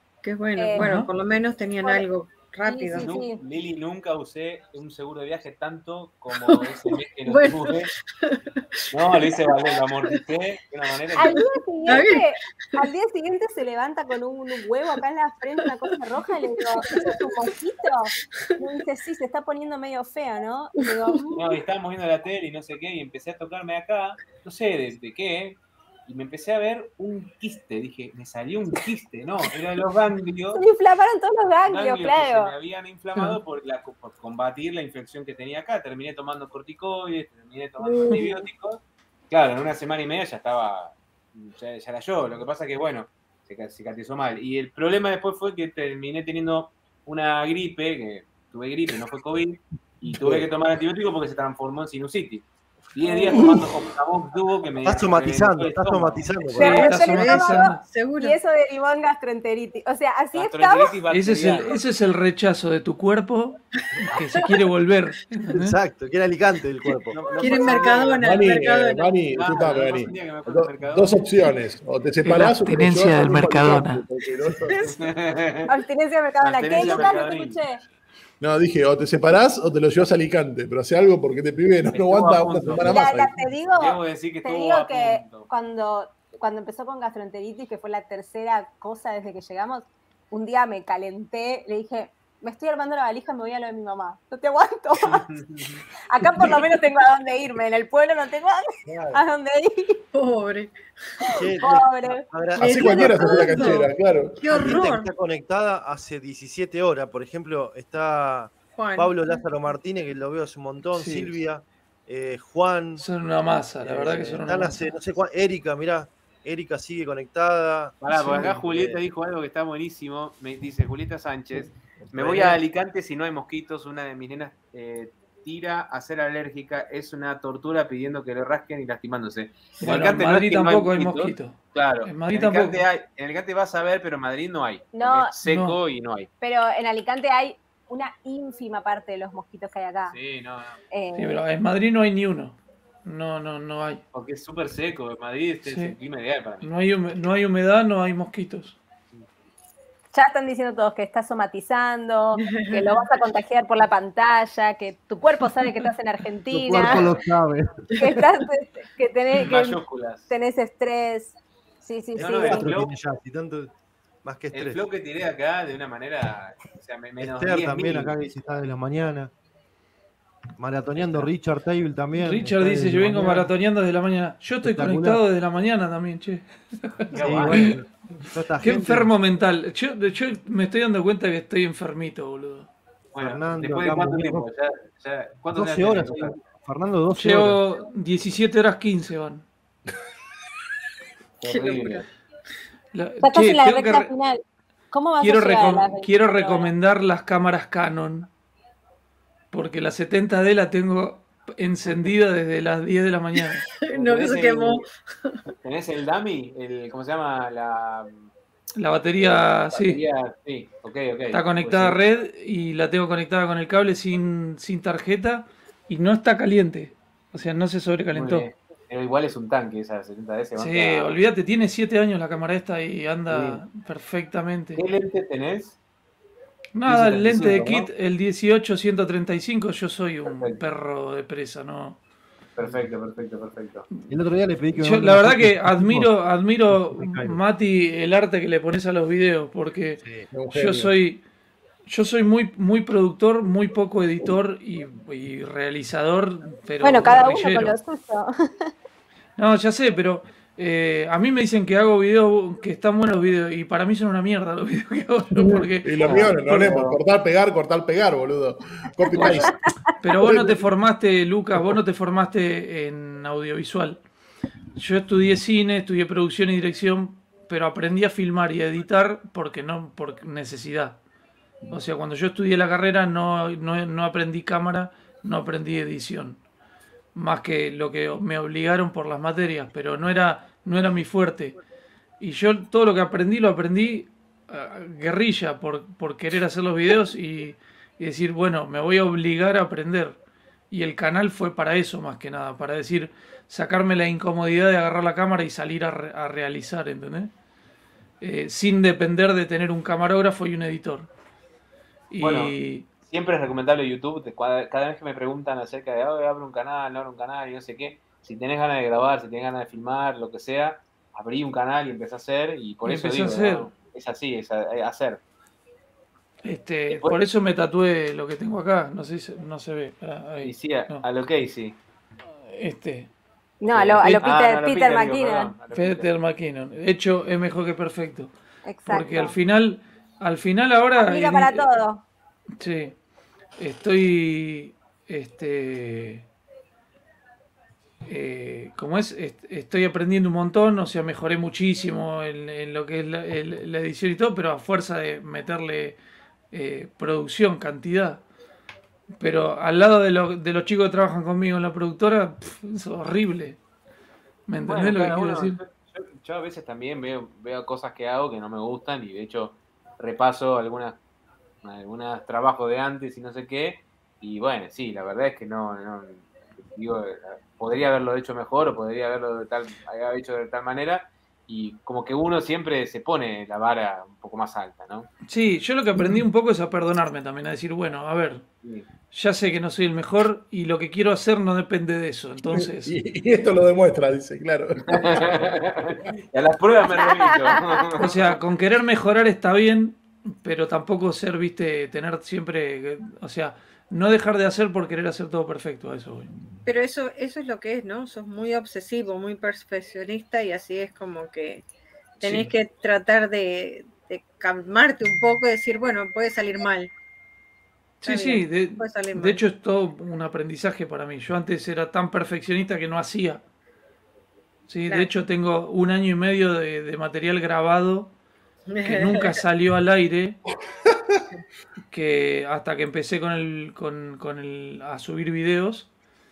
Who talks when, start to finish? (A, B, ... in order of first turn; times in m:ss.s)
0:00.2-0:03.1 A
0:00.6-0:00.9 B
0:00.8-0:01.1 C
0:01.8-0:02.0 B
0:02.6-0:03.4 B
0:02.9-0:07.9 D
0:07.2-0:09.2 A
0:08.9-0:11.3 D
0:11.2-0:12.3 A
0:11.2-0:21.4 B
0:15.7-0:16.0 A
0:16.6-0:17.5 A
0:21.0-0:21.4 A
0:21.3-0:30.6 D
0:30.5-0:32.5 B
0:31.7-0:56.6 D
0:37.8-0:38.4 B
0:50.1-0:50.4 E
0:53.2-0:53.7 C
0:53.4-0:53.7 E
0:54.8-0:56.8 E
0:56.6-1:00.9 B
0:56.6-0:57.8 C
0:56.6-0:58.4 A
1:00.3-1:01.8 D
1:01.1-1:05.8 C
1:05.5-1:07.8 E
1:07.1-1:08.2 D
1:07.4-1:09.1 A
1:08.2-1:14.9 F
1:09.3-1:11.2 D
1:12.2-1:14.0 C
1:14.9-1:15.7 D
1:15.7-1:17.8 B
1:16.4-1:17.6 D
1:18.4-1:23.4 F
1:21.9-1:22.9 D
1:22.9-1:35.3 B
1:23.7-1:25.5 D
1:35.3-1:35.8 D
1:36.1-1:40.0 B
1:38.8-1:39.2 E
1:40.1-1:40.8 A
1:41.3-1:43.7 E
1:41.6-1:42.2 B
1:42.6-1:44.8 F
1:42.6-1:45.1 A
1:44.5-1:53.0 E
1:48.8-1:49.1 A
1:50.9-1:51.4 C
1:53.0-1:54.8 C
1:53.8-1:59.0 E
1:58.0-2:16.3 D
1:58.1-1:58.6 C
2:02.1-2:02.6 E
2:09.8-2:12.8 C
2:14.9-2:15.3 B
2:15.4-2:15.8 C
2:16.4-2:20.2 B
2:20.1-2:20.8 D
2:20.9-2:21.4 B
2:21.1-2:24.0 C
2:24.1-2:26.7 D
2:25.6-2:25.9 C
2:26.6-2:28.8 C
2:30.1-2:37.0 B
2:32.4-2:33.0 A
2:36.5-2:37.9 E
2:36.8-2:37.2 D
2:37.9-2:38.2 A
2:38.0-2:42.7 B
2:39.3-2:40.3 D
2:42.2-2:42.9 D
2:42.4-2:43.7 E
2:44.2-2:44.8 E
2:44.5-2:48.1 D
2:47.2-2:49.3 E
2:50.6-2:53.5 E
2:51.0-2:51.3 D
2:52.1-2:57.7 C
2:54.6-2:55.2 E
2:57.1-2:59.1 E
2:57.1-2:57.8 D
2:58.6-3:02.7 C
3:03.1-3:06.3 D
3:03.2-3:04.4 E
3:05.5-3:07.6 E
3:07.1-3:09.4 C
3:11.4-3:12.0 D
3:11.5-3:12.0 A
3:12.9-3:14.1 C
3:13.2-3:14.4 B
3:14.9-3:16.7 B
3:15.2-3:18.3 C
3:19.5-3:23.6 C
3:23.6-3:25.4 A
3:23.9-3:24.8 D
3:25.6-3:28.3 D
3:28.8-3:30.0 C
3:29.2-3:32.0 D
3:31.3-3:38.5 C
3:38.1-3:41.2 D
3:40.6-3:44.8 C
3:43.3-3:43.6 D
3:44.8-3:45.8 D
3:46.7-3:52.0 C
3:46.8-3:47.9 D
3:50.2-3:50.6 D
3:52.6-3:53.8 D
3:54.1-3:56.1 E
3:54.8-4:01.2 C
3:56.9-3:57.4 E
4:00.0-4:00.3 E
4:00.3-4:00.9 F
4:01.9-4:07.7 C
4:06.8-4:08.7 B
4:09.4-4:16.9 C
4:15.3-4:20.6 F
4:16.0-4:17.0 D
4:19.1-4:19.5 C
4:20.0-4:24.0 C
4:24.8-4:31.0 C
4:31.7-4:36.4 C
4:37.1-4:41.6 C
4:42.2-4:50.2 C
4:50.7-4:57.3 C
4:58.2-5:01.1 C
5:02.1-5:02.9 C
5:02.2-5:15.2 D
5:12.8-5:13.7 C
5:16.4-5:21.0 C
5:16.9-5:17.2 D
5:20.4-5:21.8 D
5:22.5-5:23.1 C
5:23.6-5:25.5 B
5:23.7-5:26.1 D
5:25.7-5:28.3 C
5:28.6-5:29.3 B
5:28.8-5:31.6 C
5:30.9-5:32.0 B
5:32.6-5:33.0 C
5:33.6-5:36.3 C
5:38.0-5:46.0 C
5:46.5-5:48.2 C
5:49.2-5:53.6 C
5:54.5-5:55.6 C
5:54.6-6:01.0 D
6:01.6-6:15.1 D
6:15.3-6:18.4 C
6:19.1-6:22.9 C
6:22.5-6:26.0 F
6:24.9-6:28.4 D
6:28.0-6:36.3 C
6:36.6-6:41.6 A
6:42.2-6:46.9 A
6:48.0-6:49.4 A
6:48.0-6:53.4 C
6:54.7-6:58.1 C
6:58.7-6:59.4 A
6:58.8-7:00.4 C
7:01.9-7:05.9 C